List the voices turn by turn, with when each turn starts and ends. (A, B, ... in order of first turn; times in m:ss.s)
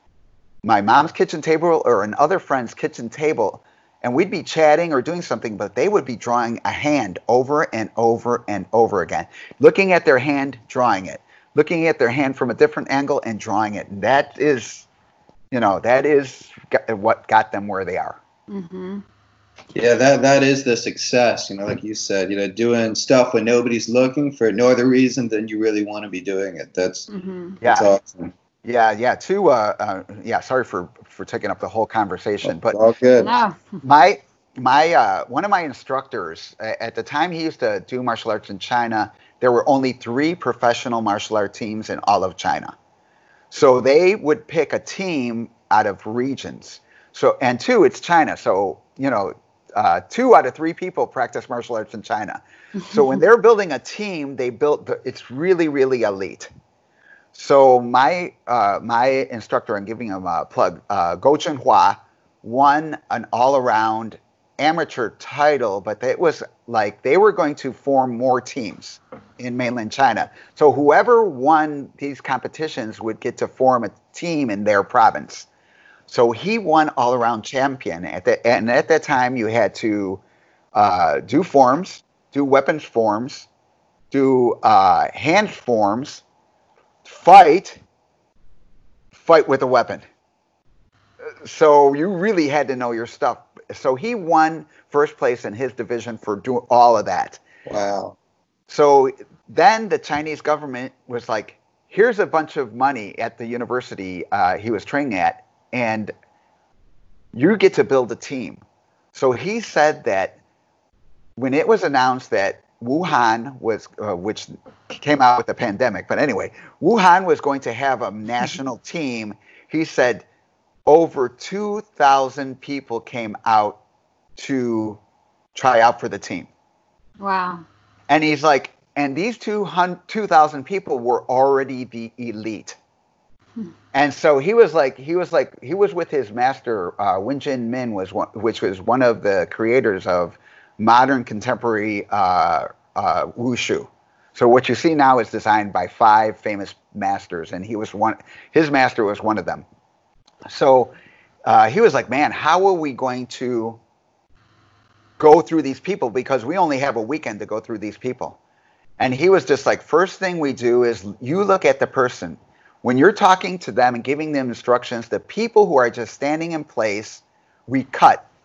0:00.6-0:14.9 A
0:15.5-0:18.2 A
0:18.5-0:19.0 B
0:19.8-0:27.1 C
0:27.1-0:27.6 B
0:27.6-0:28.3 C
0:27.6-0:27.9 A
0:28.6-0:42.8 A
0:32.4-0:33.3 C
0:33.2-0:33.8 B
0:43.5-0:56.5 A
0:57.3-1:15.5 A
1:16.1-1:20.2 A
1:20.7-1:23.5 A
1:24.1-1:26.2 A
1:27.0-1:27.8 A
1:29.1-1:30.0 A
1:31.4-1:37.4 A
1:37.7-1:38.2 C
1:38.7-1:46.1 A
1:47.3-1:48.6 A
1:49.1-1:50.4 A
1:51.4-2:00.2 A
2:00.9-2:03.8 A
2:04.4-2:05.0 A
2:05.6-2:06.5 A
2:07.2-2:07.6 B
2:08.1-2:12.8 A
2:13.9-2:29.7 A
2:30.5-2:31.0 A
2:31.5-2:33.8 A
2:35.2-2:38.4 A
2:39.0-2:48.3 A